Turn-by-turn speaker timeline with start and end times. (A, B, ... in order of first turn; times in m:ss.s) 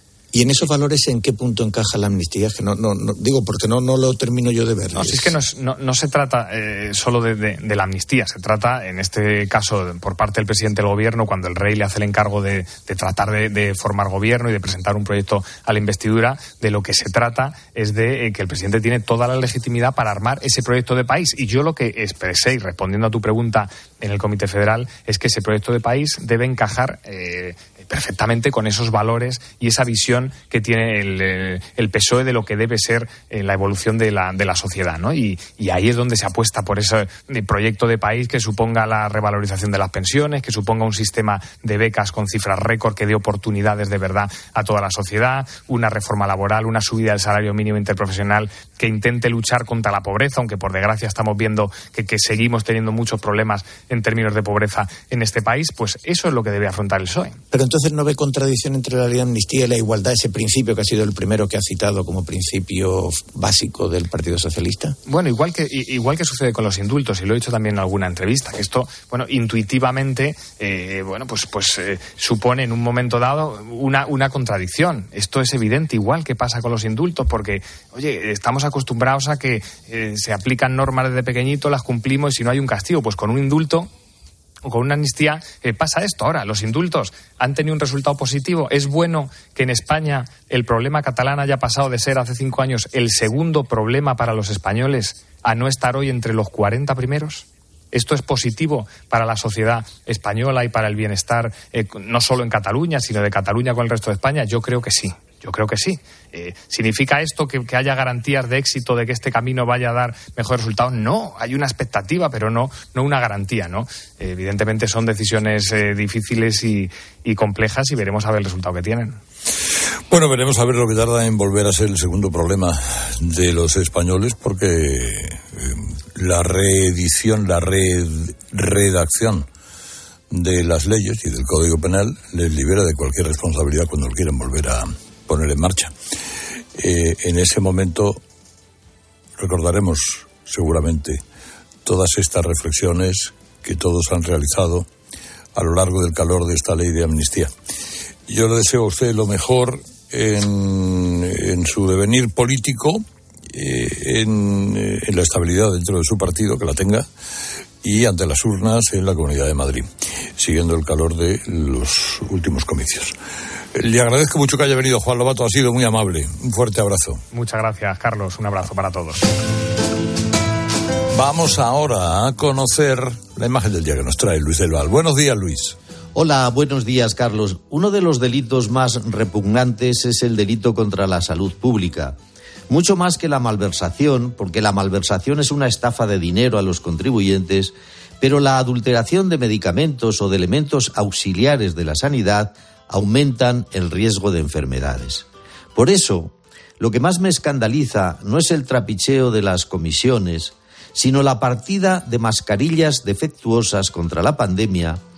0:00.3-0:05.4 A
0:05.0-0:57.4 B
0:57.5-1:05.0 A
1:05.1-1:23.9 B
1:24.6-1:59.2 B
2:00.1-2:09.5 C
2:10.3-2:15.9 C
2:16.8-2:18.2 C
2:19.4-2:21.2 C
2:21.9-2:24.9 C
2:25.6-2:27.5 C
2:28.3-2:37.1 C
2:37.8-2:43.2 C
2:43.8-2:47.2 C
2:47.3-2:49.3 B
2:51.1-2:55.8 C
2:56.2-3:02.2 D
3:02.7-3:25.0 D